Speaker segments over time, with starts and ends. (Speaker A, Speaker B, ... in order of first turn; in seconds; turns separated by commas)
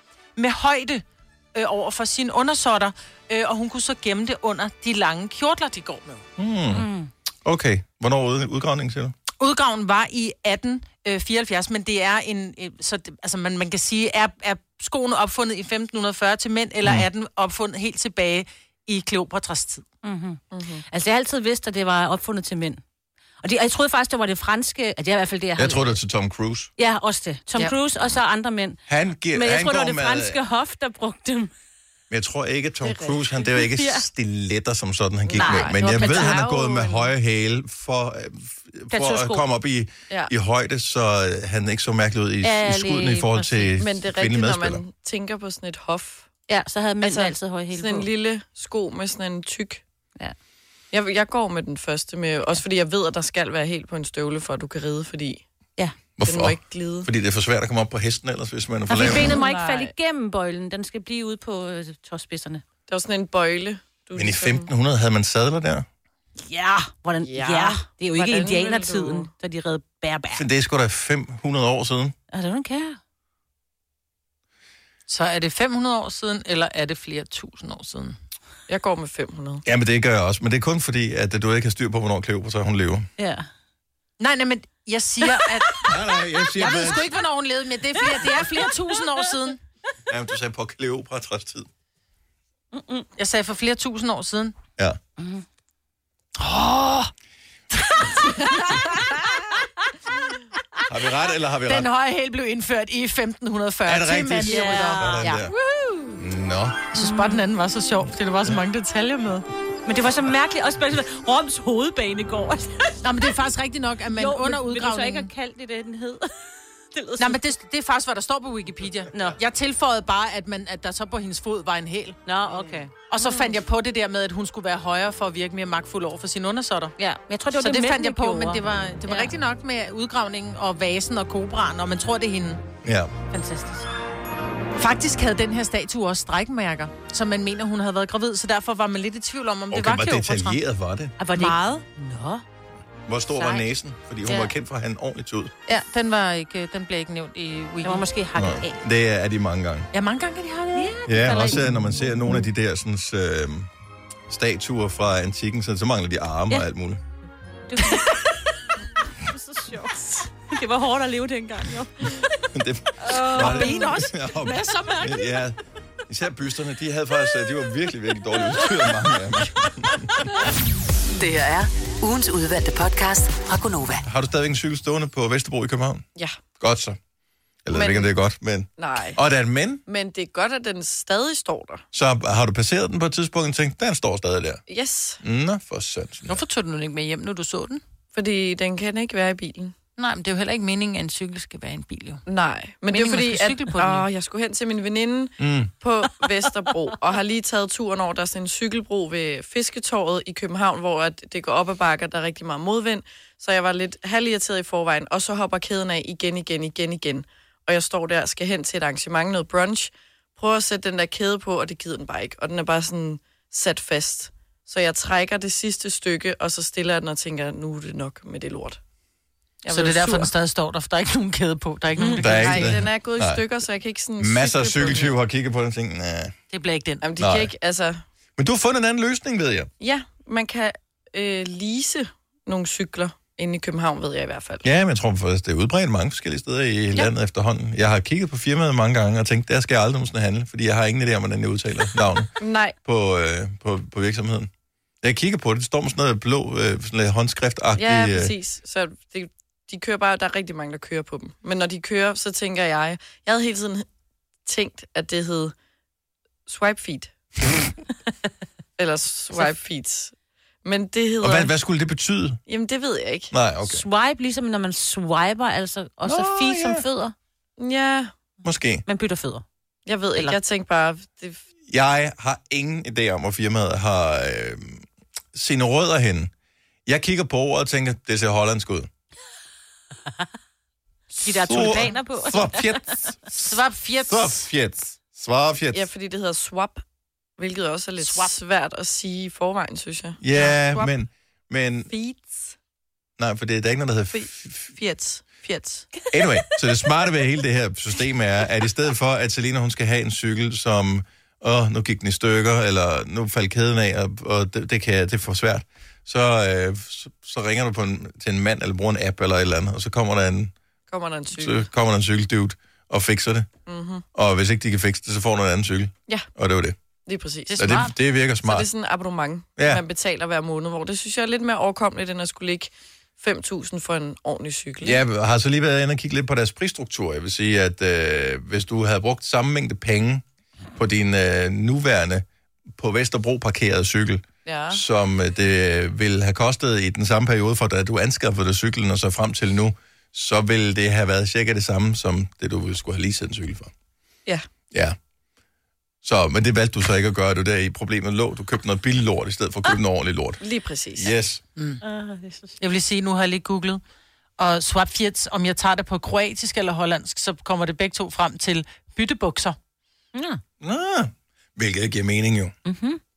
Speaker A: 0.4-6.1, Speaker B: 6.4-6.9, Speaker C: 6.7-7.1, Speaker B: 7.5-9.1, Speaker A: 9.4-19.8, Speaker C: 20.0-22.8, Speaker D: 20.5-20.9, Speaker C: 23.4-26.0, Speaker B: 25.6-26.7, Speaker C: 26.8-28.8, Speaker B: 28.9-30.4, Speaker C: 29.3-31.5, Speaker B: 32.1-44.8, Speaker D: 32.8-33.2, Speaker C: 33.6-34.1, Speaker D: 35.3-37.1, Speaker C: 35.4-36.4, Speaker C: 38.9-39.4, Speaker C: 42.4-43.8, Speaker D: 43.8-46.3, Speaker C: 46.5-48.1, Speaker D: 47.0-49.8, Speaker D: 50.9-55.4, Speaker B: 56.2-59.4, Speaker D: 56.2-57.1, Speaker C: 58.9-62.6, Speaker D: 58.9-59.9, Speaker D: 62.9-64.7, Speaker B: 64.2-65.9, Speaker C: 66.4-70.5, Speaker D: 67.2-69.3, Speaker B: 70.3-72.2, Speaker C: 72.3-73.0, Speaker A: 75.1-78.2, Speaker D: 78.7-79.6, Speaker B: 79.7-83.1, Speaker C: 83.2-83.5, Speaker A: 84.2-85.9, Speaker B: 85.8-87.1, Speaker A: 86.5-89.6, Speaker B: 90.1-91.7, Speaker C: 92.7-93.1, Speaker A: 93.2-94.6, Speaker C: 95.2-95.5, Speaker A: 96.4-97.1, Speaker A: 97.9-99.1, Speaker B: 100.9-101.9, Speaker A: 101.7-105.4, Speaker B: 103.9-105.5, Speaker C: 104.5-105.5, Speaker B: 106.2-106.8, Speaker A: 106.9-109.5, Speaker C: 107.0-107.5, Speaker C: 109.9-113.0, Speaker A: 113.0-115.3, Speaker C: 114.2-116.3, Speaker C: 116.9-117.4, Speaker A: 117.2-127.0, Speaker C: 119.1-119.4, Speaker C: 122.3-123.6, Speaker C: 127.0-129.3, Speaker A: 127.6-132.6, Speaker B: 132.8-133.1, Speaker C: 133.3-133.9, Speaker A: 134.8-140.6, Speaker B: 139.7-141.2, Speaker C: 141.2-142.4, Speaker A: 141.3-141.8, Speaker B: 143.1-145.5, Speaker C: 143.4-143.7, Speaker A: 145.7-148.0, Speaker C: 147.8-148.8, Speaker B: 148.4-149.9, Speaker A: 149.9-151.4, Speaker C: 150.8-152.4, Speaker B: 151.1-153.7, Speaker B: 154.3-157.0, Speaker C: 157.7-158.5, Speaker C: 159.2-162.3, Speaker B: 162.5-165.6, Speaker A: 163.1-165.1, Speaker C: 163.3-163.9, Speaker B: 166.1-170.3, Speaker E: 171.2-174.1, Speaker B: 174.0-176.1, Speaker B: 176.6-177.0, Speaker B: 177.7-179.8, Speaker D: 177.7-178.1, Speaker D: 178.8-179.2, Speaker D: 179.9-181.8, Speaker B: 181.9-184.6, Speaker D: 184.7-185.2, Speaker B: 185.2-186.4, Speaker A: 186.3-187.8, Speaker D: 188.1-189.8, Speaker A: 190.0-192.2, Speaker D: 192.3-218.8, Speaker A: 192.9-194.1, Speaker B: 195.4-195.7, Speaker D: 219.6-220.3, Speaker A: 219.7-222.7, Speaker D: 222.0-225.2, Speaker B: 222.2-223.4, Speaker B: 224.2-226.3, Speaker A: 226.5-227.0, Speaker D: 227.0-228.0, Speaker B: 227.2-227.5, Speaker B: 228.4-229.7, Speaker D: 229.8-234.7, Speaker B: 234.6-242.3, Speaker D: 242.4-242.8, Speaker B: 242.8-244.5, Speaker B: 245.0-248.3, Speaker D: 247.8-253.8, Speaker D: 254.4-255.5, Speaker D: 256.5-257.5, Speaker D: 258.8-261.5, Speaker B: 261.2-262.4, Speaker D: 262.5-263.3, Speaker B: 263.3-263.8, Speaker C: 263.7-267.1, Speaker B: 266.0-266.8, Speaker D: 267.6-268.1, Speaker B: 268.4-268.8, Speaker C: 268.9-269.4, Speaker D: 269.9-271.4, Speaker B: 271.7-276.3, Speaker B: 276.9-278.9, Speaker C: 281.1-282.8, Speaker B: 281.3-283.2, Speaker A: 281.5-281.8, Speaker A: 283.3-284.4, Speaker B: 284.1-285.9, Speaker D: 285.7-286.8, Speaker D: 287.4-290.9, Speaker A: 288.0-288.3, Speaker B: 290.2-291.9, Speaker D: 291.9-292.6, Speaker B: 293.2-294.7, Speaker D: 294.1-295.9, Speaker B: 296.1-310.5, Speaker D: 310.9-311.6, Speaker B: 311.3-313.5, Speaker D: 313.7-314.1, Speaker B: 314.1-316.8, Speaker D: 317.1-317.9, Speaker A: 317.5-317.9, Speaker B: 317.5-318.7, Speaker D: 318.4-325.0, Speaker B: 319.6-319.8, Speaker B: 324.8-330.2, Speaker B: 330.8-343.7, Speaker D: 334.5-334.8, Speaker B: 344.7-345.0, Speaker B: 346.0-350.4, Speaker D: 350.4-351.1, Speaker B: 350.9-351.4, Speaker C: 351.8-352.6, Speaker A: 352.6-353.8, Speaker A: 354.4-359.6, Speaker C: 360.1-360.4, Speaker B: 360.6-362.5, Speaker C: 362.6-363.0